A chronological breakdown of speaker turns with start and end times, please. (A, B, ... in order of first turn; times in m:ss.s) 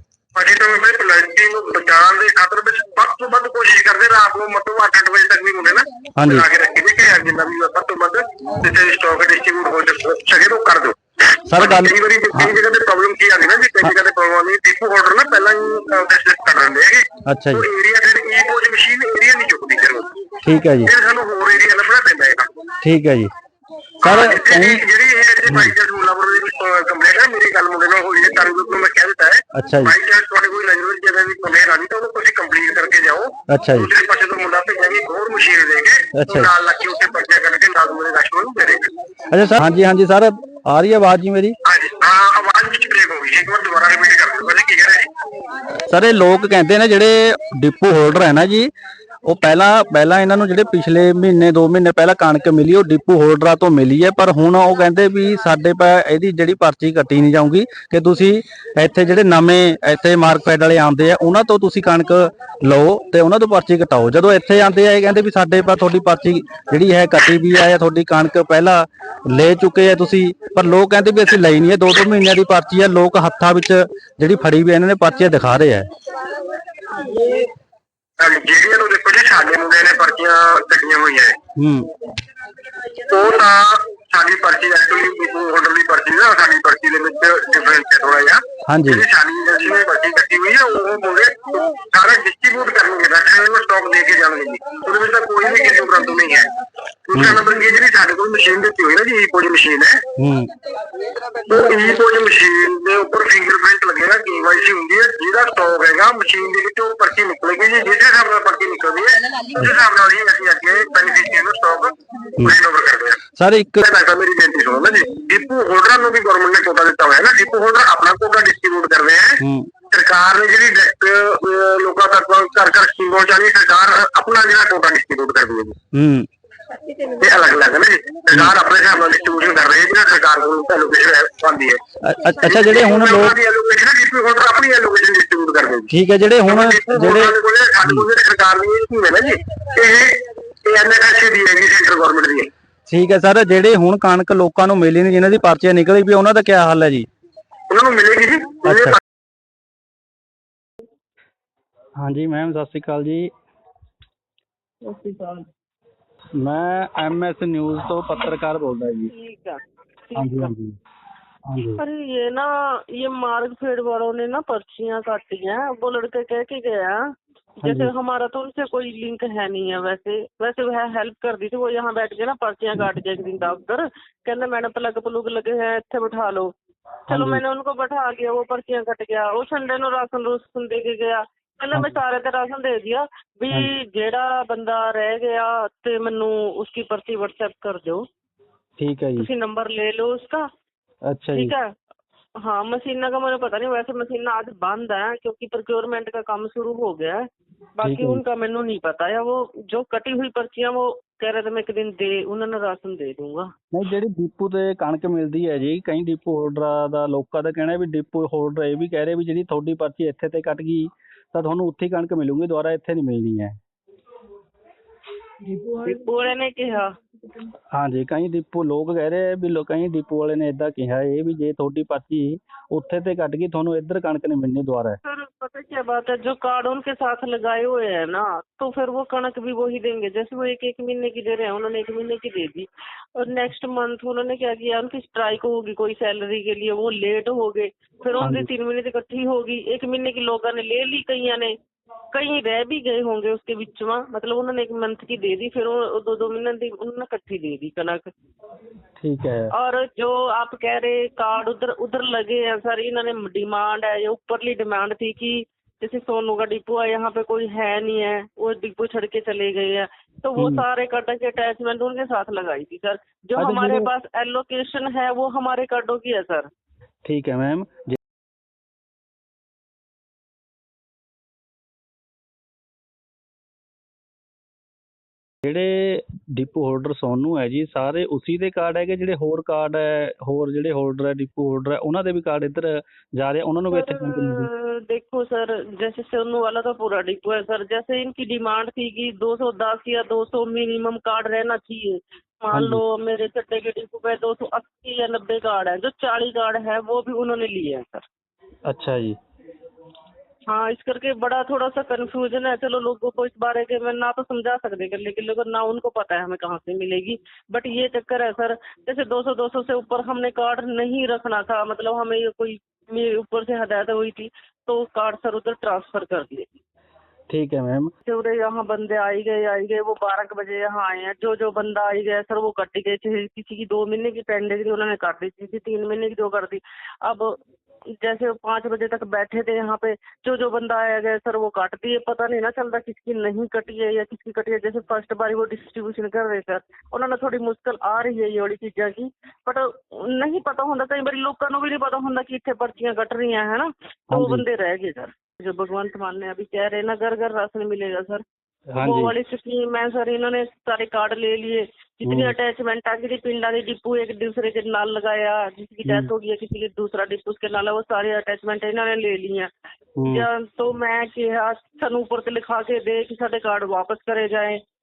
0:00.3-0:11.0 A
0:06.2-0:06.5 B
0:11.5-0:12.6 B
0:11.5-0:20.2 A
0:17.2-0:17.6 B
0:20.4-0:20.9 B
0:20.8-0:22.5 A
0:22.8-0:23.3 B
0:24.0-0:38.9 A
0:24.0-0:24.8 B
0:25.4-0:25.7 B
0:29.5-0:30.0 B
0:33.5-0:33.9 B
0:36.1-0:36.5 B
0:39.3-0:41.6 B
0:41.6-0:45.1 A
0:45.9-0:48.7 B
0:49.2-1:15.9 B
1:18.2-1:21.3 A
1:21.6-1:21.9 B
1:23.1-1:36.5 A
1:28.6-1:29.0 B
1:37.1-1:40.0 A
1:37.1-1:37.4 B
1:40.2-1:40.5 B
1:41.5-1:53.2 A
1:53.3-1:53.8 B
1:53.8-1:59.4 A
1:59.4-1:59.7 B
1:59.9-2:05.8 A
2:05.9-2:06.3 B
2:07.2-2:11.8 A
2:08.3-2:08.6 B
2:12.0-2:13.4 B
2:12.4-2:15.9 A
2:15.9-2:18.1 B
2:16.4-2:22.5 A
2:22.9-2:27.1 B
2:27.7-2:29.0 A
2:28.6-2:29.0 B
2:32.0-2:33.3 B
2:34.8-2:35.5 C
2:36.4-2:39.1 B
2:39.1-2:39.6 C
2:40.1-2:40.5 C
2:40.1-2:40.8 B
2:41.5-2:41.8 B
2:41.8-2:47.0 C
2:47.6-2:56.5 C
2:47.6-2:47.9 B
2:57.1-2:57.4 B
2:57.1-3:08.0 C
3:08.8-3:09.3 B
3:09.2-3:10.4 C
3:11.1-3:11.5 B
3:11.3-3:11.7 C
3:12.4-3:17.2 C
3:17.8-3:23.5 C
3:17.8-3:18.2 B
3:23.7-3:33.6 B
3:35.8-3:36.9 C
3:37.7-3:45.0 B
3:45.0-4:01.5 C
3:58.2-3:58.5 B
4:02.1-4:08.0 C
4:09.0-4:09.5 B
4:09.5-4:26.5 C
4:20.4-4:20.6 B
4:23.4-4:23.9 B
4:27.0-4:28.0 B
4:35.4-4:44.5 B
4:43.7-4:58.0 C
4:52.5-4:52.8 B
4:58.6-4:59.2 B
5:00.5-5:16.5 C
5:17.3-5:17.9 B
5:18.0-5:27.4 C
5:28.0-5:48.2 C
5:44.1-5:44.4 B
5:48.7-5:49.1 B
5:48.8-5:59.5 C
5:52.0-5:52.3 B
5:55.8-5:56.1 B
6:00.0-6:00.3 B
6:00.1-6:04.6 C